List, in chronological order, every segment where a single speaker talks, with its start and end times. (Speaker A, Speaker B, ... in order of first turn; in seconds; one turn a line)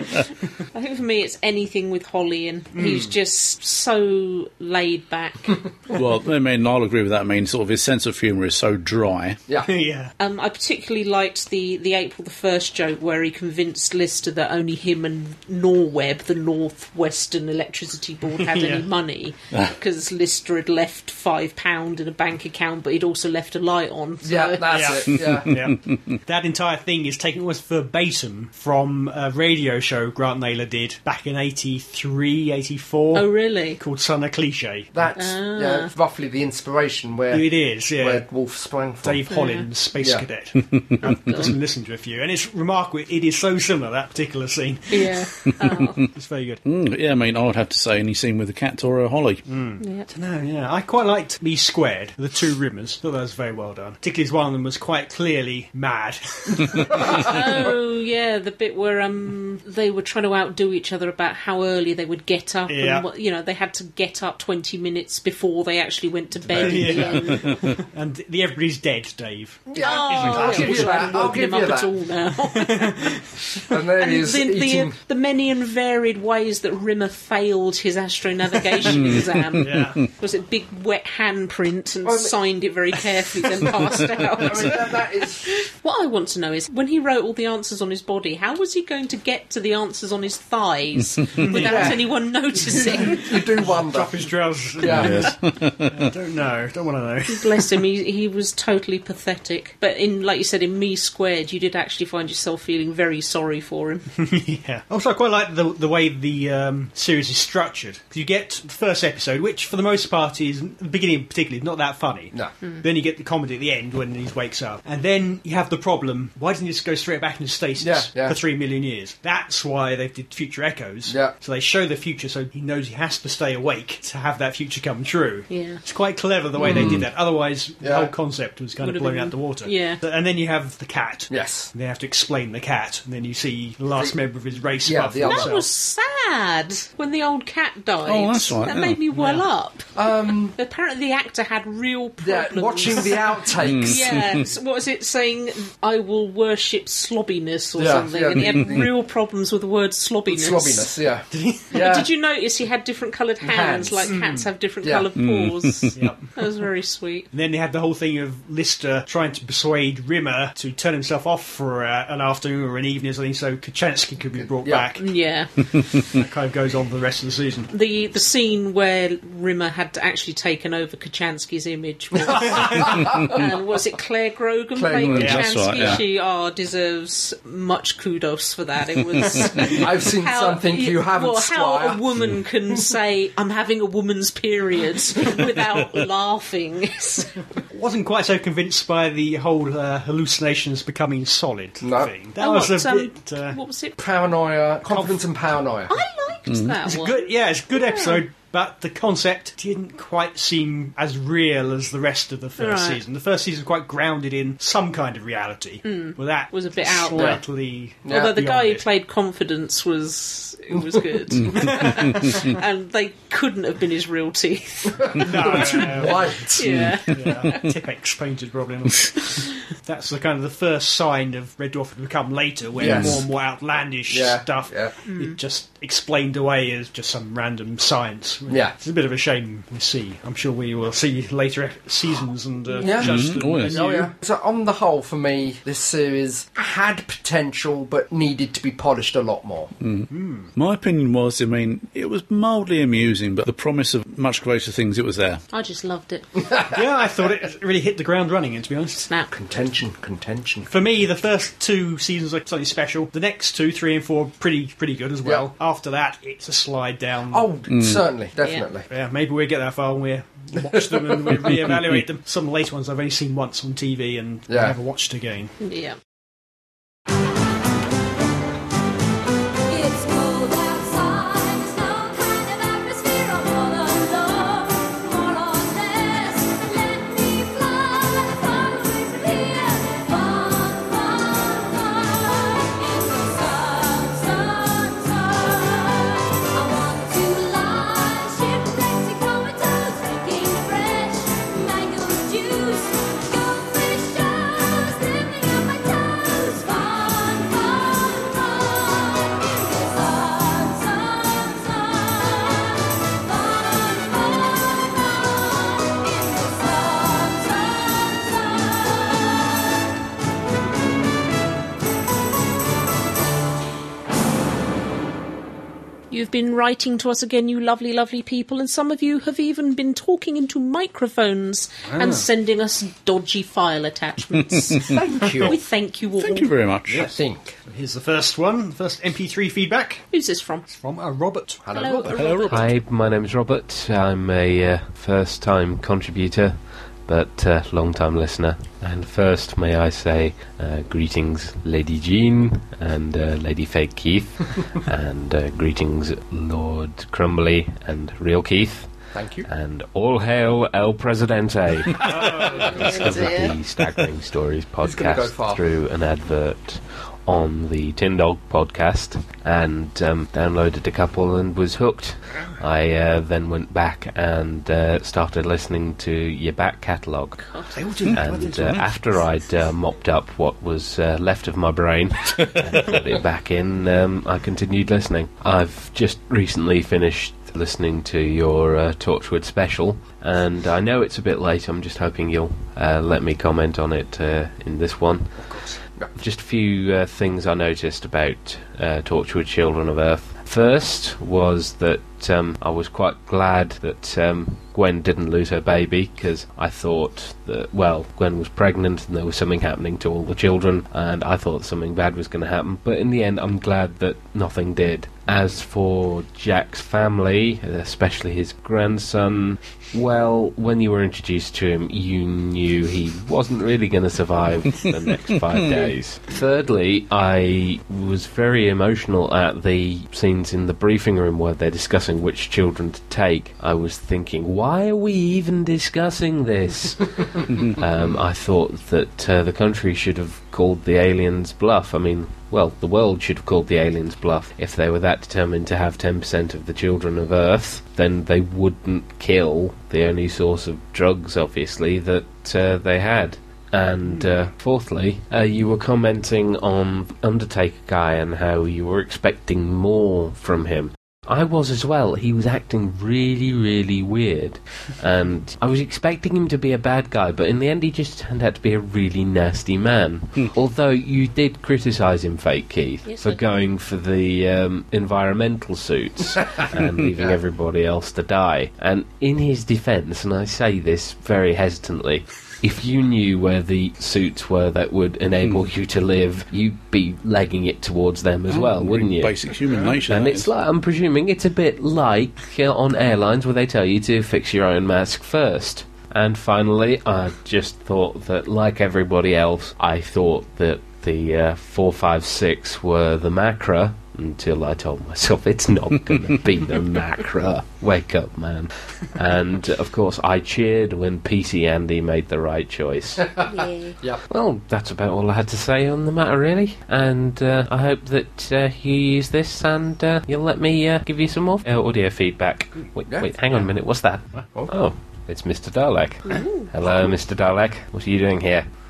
Speaker A: 0.7-5.6
Speaker B: 2.8-3.1
Speaker C: 5.9-9.4
Speaker B: 9.6-10.1
Speaker A: 10.2-25.0
Speaker B: 18.4-18.9
Speaker D: 24.2-25.5
Speaker B: 24.7-34.9
Speaker C: 25.3-25.8
Speaker A: 33.1-33.8
Speaker D: 34.9-39.2
Speaker A: 35.1-35.9
Speaker B: 37.3-38.2
Speaker B: 39.0-45.3
Speaker A: 39.3-39.7
Speaker D: 40.0-40.2
Speaker A: 41.0-41.5
Speaker A: 44.9-46.0
Speaker B: 46.1-46.6
Speaker C: 46.6-49.4
Speaker B: 49.5-57.7
Speaker A: 49.8-50.1
Speaker A: 57.0-67.7
Speaker B: 62.7-63.1
Speaker B: 66.5-71.4
Speaker C: 66.6-67.6
Speaker D: 69.7-71.9
Speaker A: 69.8-73.0
Speaker B: 72.5-73.2
Speaker D: 73.7-75.0
Speaker A: 74.0-93.5
Speaker C: 79.0-79.8
Speaker B: 79.6-80.0
Speaker D: 82.0-82.4
Speaker D: 84.1-85.5
Speaker B: 91.4-92.0
Speaker D: 91.5-94.2
Speaker B: 93.3-97.7
Speaker D: 94.8-95.3
Speaker C: 94.8-96.0
Speaker A: 97.3-104.1
Speaker B: 104.2-135.7
Speaker D: 117.8-118.4
Speaker D: 121.1-121.3
Speaker A: 125.5-125.8
Speaker D: 126.6-127.1
Speaker D: 127.8-128.1
Speaker A: 128.8-130.0
Speaker D: 131.3-131.7
Speaker D: 134.8-135.5
Speaker A: 135.2-150.9
Speaker C: 138.1-139.0
Speaker B: 139.2-139.4
Speaker D: 139.9-140.6
Speaker D: 142.2-144.2
Speaker C: 143.6-144.3
Speaker D: 147.8-148.9
Speaker D: 150.3-152.1
Speaker B: 151.3-151.7
Speaker A: 151.7-157.3
Speaker D: 153.4-154.1
Speaker B: 154.1-154.5
Speaker D: 154.8-155.1
Speaker C: 155.2-156.1
Speaker B: 156.0-156.3
Speaker B: 157.3-165.1
Speaker D: 164.4-164.9
Speaker A: 165.0-165.5
Speaker B: 166.1-167.7
Speaker A: 167.7-187.4
Speaker B: 172.2-172.7
Speaker D: 172.6-173.1
Speaker D: 174.8-176.0
Speaker C: 174.9-176.0
Speaker D: 179.6-182.0
Speaker B: 187.7-193.6
Speaker D: 191.8-192.1
Speaker A: 192.4-194.0
Speaker D: 194.0-196.0
Speaker B: 194.9-195.2
Speaker A: 195.9-198.2
Speaker C: 196.5-196.7
Speaker B: 196.8-208.8
Speaker A: 202.6-203.0
Speaker A: 205.8-207.4
Speaker D: 207.2-207.4
Speaker D: 208.1-208.3
Speaker A: 208.1-217.7
Speaker C: 211.3-212.1
Speaker B: 211.5-212.5
Speaker D: 214.9-217.0
Speaker B: 215.2-216.4
Speaker C: 216.7-217.0
Speaker B: 217.1-234.1
Speaker D: 222.8-223.3
Speaker C: 222.8-223.2
Speaker D: 224.1-224.9
Speaker A: 225.1-225.4
Speaker D: 228.5-228.8
Speaker D: 232.8-239.7
Speaker C: 233.0-233.9
Speaker C: 239.8-245.4
Speaker B: 240.1-240.5
Speaker A: 245.5-246.6
Speaker B: 246.7-249.1
Speaker D: 249.3-250.7
Speaker B: 250.7-257.5
Speaker D: 255.2-255.5
Speaker D: 257.3-258.9
Speaker C: 257.7-258.0
Speaker A: 258.4-258.7
Speaker B: 258.9-265.6
Speaker D: 260.6-261.7
Speaker C: 261.5-262.0
Speaker D: 264.5-264.8
Speaker A: 265.6-266.0
Speaker E: 269.7-309.8
Speaker A: 316.1-326.5
Speaker B: 321.8-322.3
Speaker C: 324.5-324.9
Speaker D: 324.8-325.6
Speaker C: 326.2-327.1
Speaker B: 326.9-327.1
Speaker D: 326.9-327.6
Speaker B: 327.7-330.1
Speaker A: 330.1-330.6
Speaker B: 330.7-332.4
Speaker D: 331.6-332.4
Speaker A: 331.7-332.6
Speaker C: 332.1-332.8
Speaker F: 332.5-367.5
Speaker D: 349.1-349.5
Speaker B: 352.1-352.9
Speaker A: 352.7-353.6
Speaker D: 354.8-355.6
Speaker A: 367.4-367.8
Speaker B: 367.7-368.9
Speaker C: 368.1-368.9
Speaker F: 368.1-385.4
Speaker B: 385.4-385.8
Speaker F: 386.1-479.4
Speaker A: 463.1-463.4
Speaker C: 478.5-480.5
Speaker B: 479.6-480.0
Speaker F: 480.1-503.3
Speaker D: 503.2-504.2
Speaker E: 503.5-503.9
Speaker F: 504.3-518.7
Speaker A: 516.3-516.7